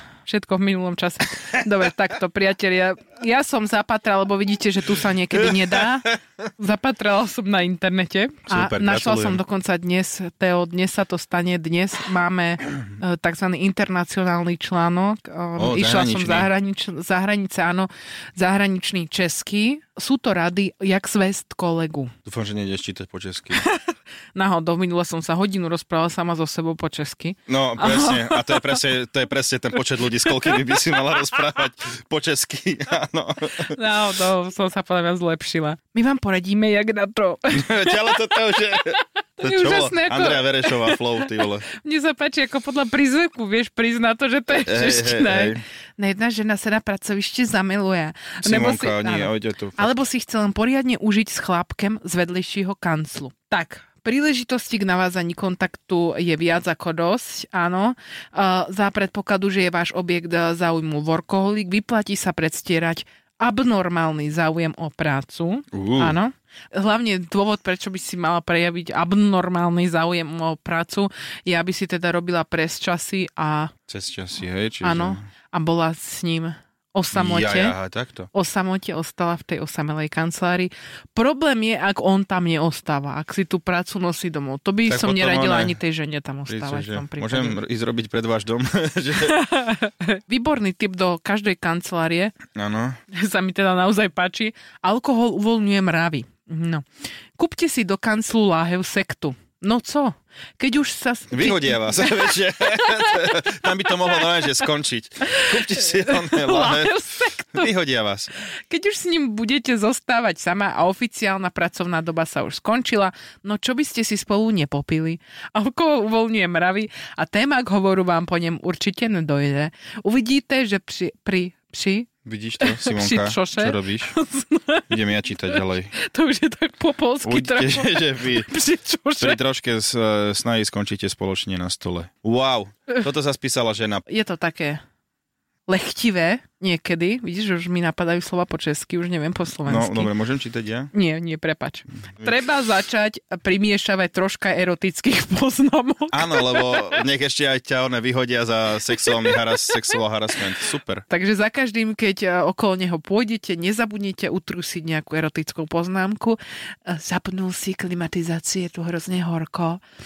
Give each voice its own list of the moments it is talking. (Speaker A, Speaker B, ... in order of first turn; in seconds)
Speaker A: 0.2-22.1, 23.6-28.8, 30.2-30.6, 33.7-73.7, 74.8-77.8, 78.3-87.6, 89.3-92.3, 93.1-96.8, 97.4-103.5, 104.2-104.5, 105.2-107.7, 108.7-122.1, 122.6-129.4, 134.1-134.8, 135.7-140.1, 140.9-147.0, 149.1-149.4, 151.1-159.8
Speaker B: 5.3-6.1, 8.5-9.4, 15.6-16.5, 22.2-23.6, 27.5-33.8, 37.5-41.6, 44.6-45.6, 48.4-49.9, 65.7-66.2, 73.9-75.2, 77.1-78.3, 84.8-85.8, 86.5-89.4, 92.5-93.0, 101.3-106.9, 107.5-108.3, 122.2-124.1, 124.9-125.9, 127.2-128.5, 129.2-134.0, 139.7-140.9, 146.1-151.1